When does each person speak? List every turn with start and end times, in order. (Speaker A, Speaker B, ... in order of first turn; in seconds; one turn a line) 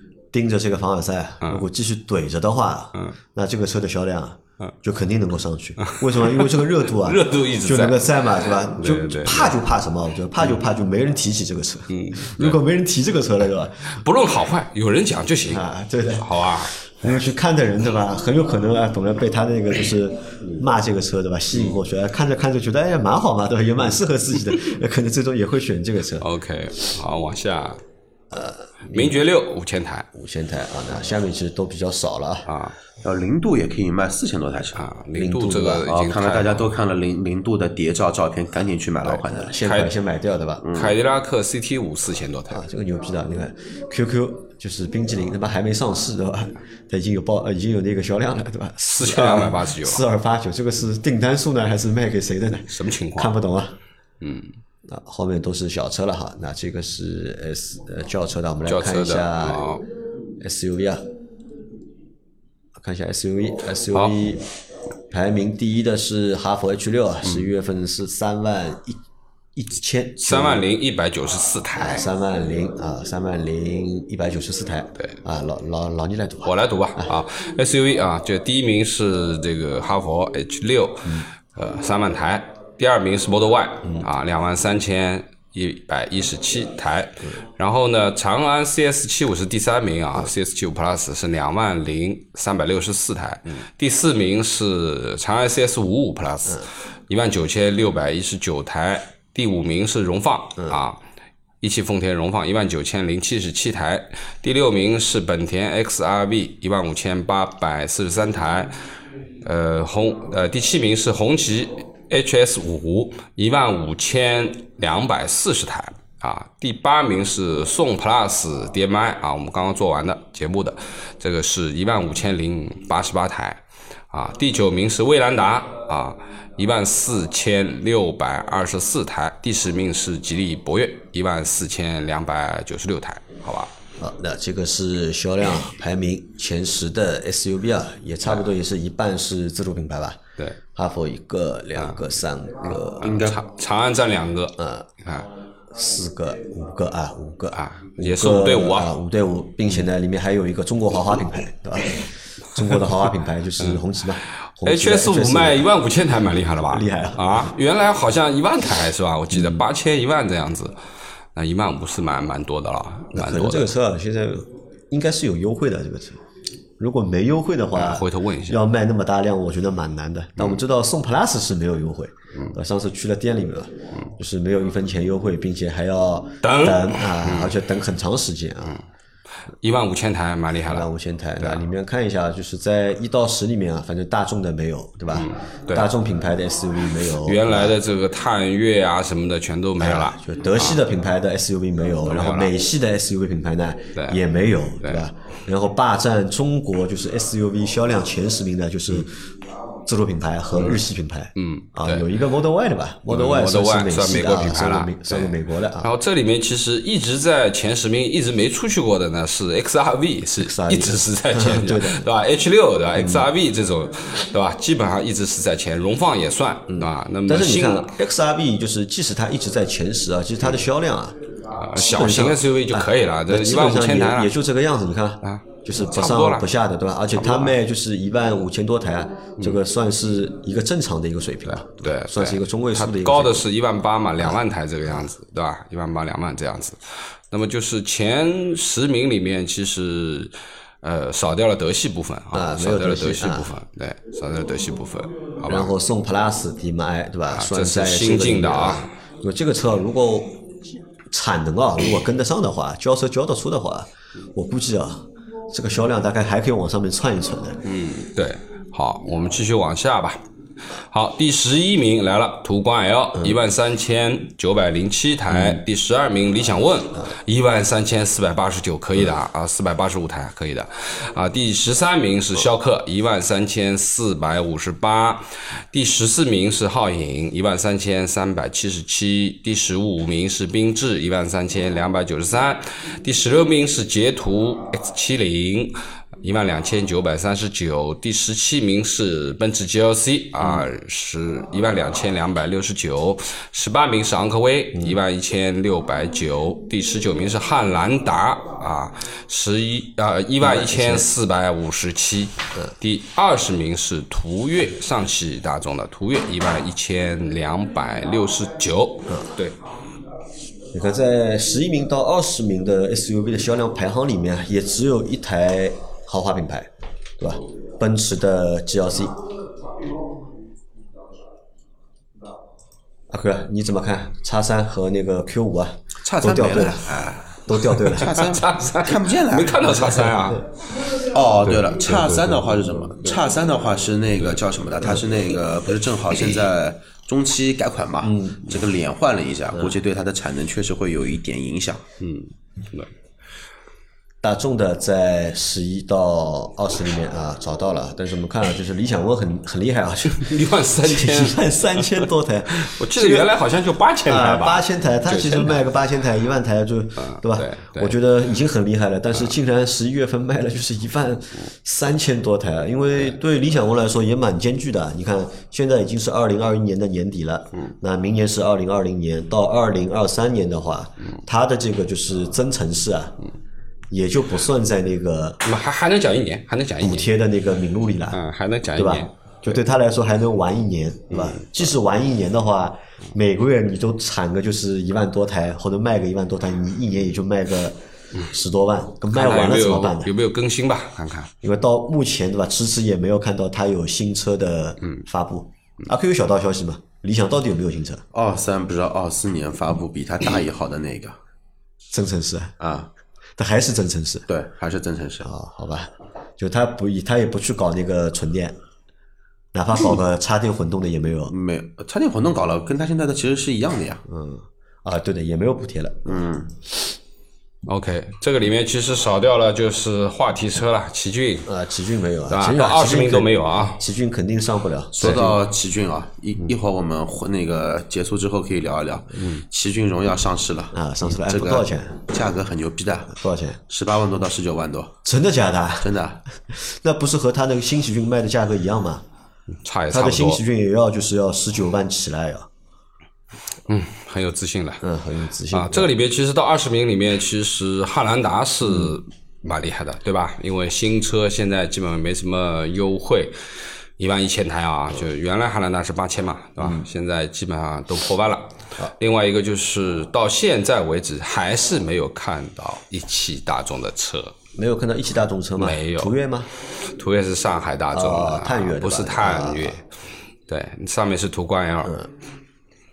Speaker A: 0.3-14.0
Speaker B: 5.8-9.6
Speaker B: 11.9-12.6
Speaker B: 13.8-15.6
Speaker A: 15.5-26.2
Speaker B: 16.2-16.8
Speaker B: 26.2-27.8
Speaker A: 28.3-29.2
Speaker B: 28.9-30.1
Speaker A: 30.1-32.5
Speaker B: 32.5-32.7
Speaker C: 33.0-34.9
Speaker B: 34.8-36.6
Speaker A: 35.1-35.8
Speaker C: 35.9-39.6
Speaker A: 39.1-40.6
Speaker B: 39.6-39.9
Speaker C: 40.6-41.0
Speaker B: 40.7-42.6
Speaker A: 42.5-53.8
Speaker B: 48.8-50.0
Speaker B: 52.7-53.3
Speaker B: 54.2-54.5
Speaker A: 54.8-59.8
Speaker B: 58.6-59.8
Speaker A: 60.4-61.1
Speaker A: 62.8-64.5
Speaker A: 65.1-69.0
Speaker A: 69.5-70.6
Speaker B: 70.2-72.0
Speaker A: 71.8-77.2
Speaker B: 76.4-101.0
Speaker B: 101.6-108.8
Speaker B: 109.4-133.7
Speaker A: 134.0-140.2
Speaker A: 140.7-143.3
Speaker C: 142.6-143.4
Speaker B: 143.0-145.3
Speaker A: 144.6-144.9
Speaker A: 145.7-155.7
Speaker B: 147.5-148.9
Speaker B: 153.6-160.8
Speaker A: 156.7-157.5
Speaker A: 159.3-159.6
Speaker B: 161.3-163.7
Speaker A: 163.1-166.2
Speaker A: 166.8-178.8
Speaker B: 167.7-168.6
Speaker B: 176.4-177.5
Speaker B: 179.6-180.9
Speaker A: 180.6-187.8
Speaker B: 185.1-185.9
Speaker B: 187.2-190.8
Speaker A: 189.8-199.3
Speaker B: 192.1-192.5
Speaker B: 193.9-194.2
Speaker B: 194.8-195.1
Speaker A: 199.8-205.9
Speaker B: 201.3-202.1
Speaker B: 203.1-217.9
Speaker A: 210.4-212.1
Speaker A: 212.9-213.3
Speaker A: 216.7-221.2
Speaker B: 221.5-224.3
Speaker A: 221.7-233.4
Speaker B: 225.2-226.5
Speaker B: 227.1-227.5
Speaker B: 231.4-245.7
Speaker A: 242.3-243.5
Speaker A: 245.4-257.6
Speaker B: 247.3-248.9
Speaker B: 257.6-260.2
Speaker B: 260.8-309.6
Speaker A: 265.3-265.6
Speaker A: 290.4-290.7
Speaker A: 294.7-295.0
Speaker A: 300.4-301.1
Speaker A: 310.7-319.2
Speaker A: 323.1-328.1
Speaker C: 326.0-330.2
Speaker B: 328.0-330.5
Speaker C: 330.8-341.8
Speaker B: 331.4-333.2
Speaker A: 338.0-338.5
Speaker B: 342.0-342.9
Speaker A: 344.2-353.3
Speaker B: 350.1-355.6
Speaker A: 354.0-373.2
Speaker B: 357.0-358.0
Speaker A: 373.9-375.4
Speaker B: 375.4-377.1
Speaker A: 376.8-378.2
Speaker B: 378.1-379.6
Speaker A: 378.7-390.1
Speaker B: 381.1-381.4
Speaker B: 389.1-391.3
Speaker A: 391.4-398.0
Speaker C: 398.1-401.1
Speaker A: 401.9-402.6
Speaker C: 402.6-402.9
Speaker A: 403.4-404.2
Speaker C: 404.3-405.3
Speaker A: 405.2-408.6
Speaker A: 409.5-411.3
Speaker C: 411.3-414.0
Speaker A: 414.1-416.2
Speaker C: 416.1-416.5
Speaker B: 417.7-421.5
Speaker A: 421.4-425.4
Speaker B: 422.3-423.8
Speaker C: 424.9-435.0
Speaker B: 425.0-425.3
Speaker A: 430.7-432.0
Speaker A: 433.1-433.6
Speaker A: 435.0-435.9
Speaker C: 435.8-436.2
Speaker A: 436.5-439.0
Speaker B: 439.6-440.4
Speaker A: 439.9-442.5
Speaker B: 443.7-444.8
Speaker A: 444.8-445.9
Speaker B: 445.5-453.4
Speaker B: 454.0-464.4
Speaker A: 456.6-456.9
Speaker A: 464.5-466.5
Speaker B: 465.6-466.1
Speaker B: 466.8-469.8
Speaker A: 467.9-469.8
Speaker B: 470.5-472.0
Speaker A: 471.8-472.1